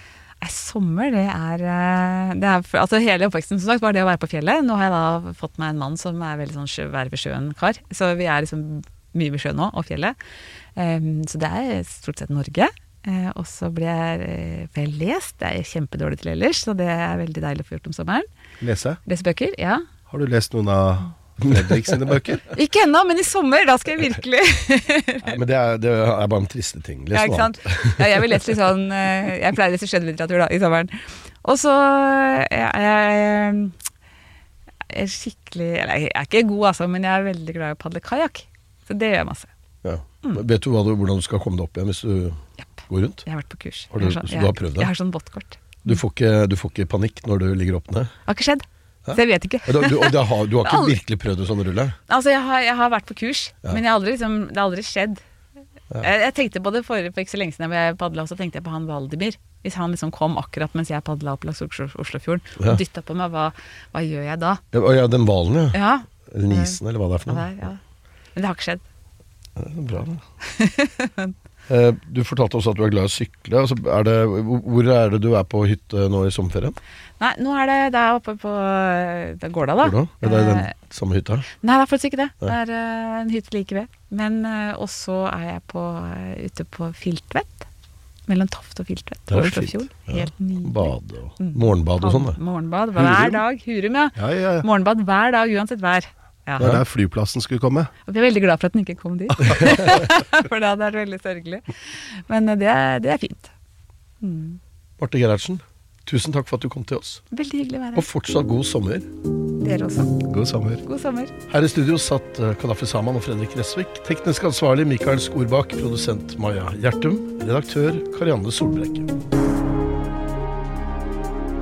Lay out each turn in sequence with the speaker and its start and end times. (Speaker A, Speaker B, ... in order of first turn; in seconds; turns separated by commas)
Speaker A: 0.4-10.2, Speaker A: 10.8-18.3, Speaker B: 18.6-19.0, Speaker A: 19.0-19.8, Speaker B: 20.1-22.5, Speaker C: 21.5-21.8, Speaker A: 22.5-25.3, Speaker C: 25.2-28.5, Speaker A: 27.1-33.7, Speaker A: 34.9-39.5, Speaker C: 39.8-43.3, Speaker A: 43.2-46.0, Speaker C: 43.9-44.9, Speaker C: 45.8-48.1, Speaker A: 48.3-50.9, Speaker C: 49.0-52.0, Speaker A: 52.1-55.2, Speaker A: 56.0-64.6, Speaker C: 64.7-67.7, Speaker A: 65.7-67.8, Speaker A: 68.3-68.8, Speaker C: 69.6-70.2, Speaker A: 70.4-71.3, Speaker C: 71.7-76.8, Speaker A: 77.2-80.7, Speaker C: 79.8-81.5, Speaker A: 81.6-87.7, Speaker A: 88.3-96.7, Speaker C: 89.3-92.4, Speaker C: 93.0-93.3, Speaker B: 94.2-94.7, Speaker B: 96.6-97.9, Speaker A: 98.1-103.5, Speaker A: 104.2-104.6, Speaker C: 105.0-107.2, Speaker A: 107.3-108.1, Speaker C: 107.9-109.1, Speaker A: 109.6-110.2, Speaker B: 110.2-110.8, Speaker A: 110.8-111.3, Speaker C: 111.5-119.1